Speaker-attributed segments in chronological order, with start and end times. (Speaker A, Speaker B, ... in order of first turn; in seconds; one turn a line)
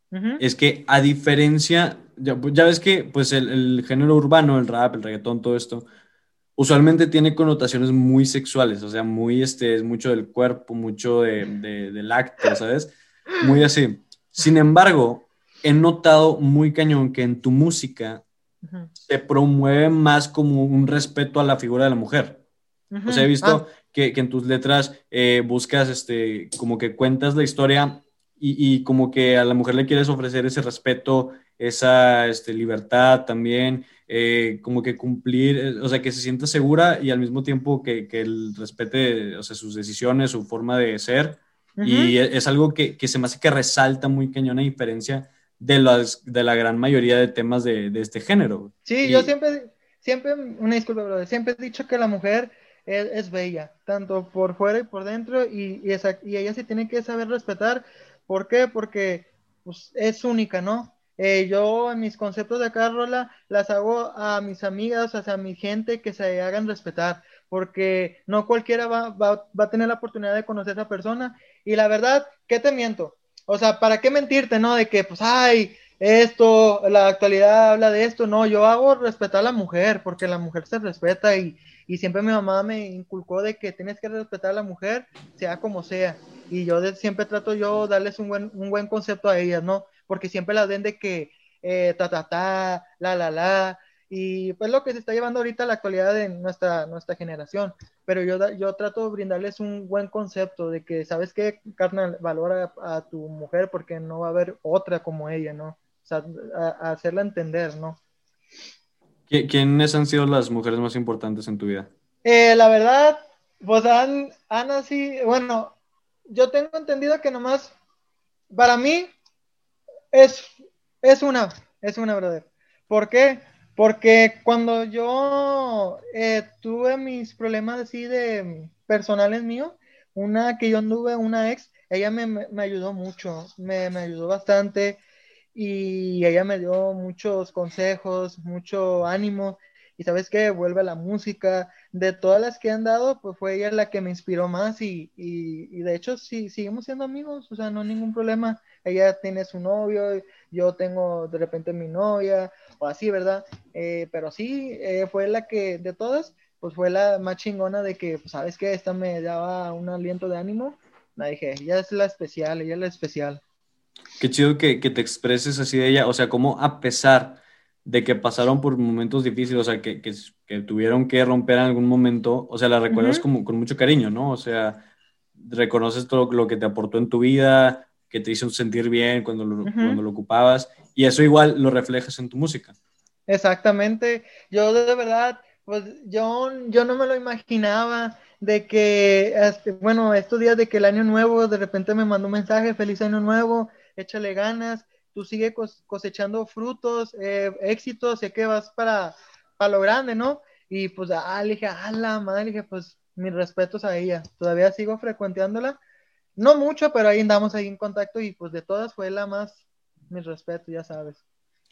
Speaker A: 0.1-0.4
Speaker B: 0.4-5.8
Speaker B: 6.6-18.2
Speaker A: 18.6-18.9
Speaker B: 19.0-22.4
Speaker A: 22.9-23.6
Speaker B: 23.1-49.3
Speaker A: 41.8-42.1
Speaker A: 48.8-108.0
Speaker B: 109.3-111.9
Speaker A: 112.2-115.7
Speaker A: 116.3-117.7
Speaker A: 118.5-119.1
Speaker A: 120.1-135.0
Speaker A: 135.5-163.4
Speaker B: 164.2-174.8
Speaker A: 172.9-173.2
Speaker B: 175.4-182.7
Speaker A: 179.6-180.0
Speaker A: 183.3-205.8
Speaker A: 206.4-211.2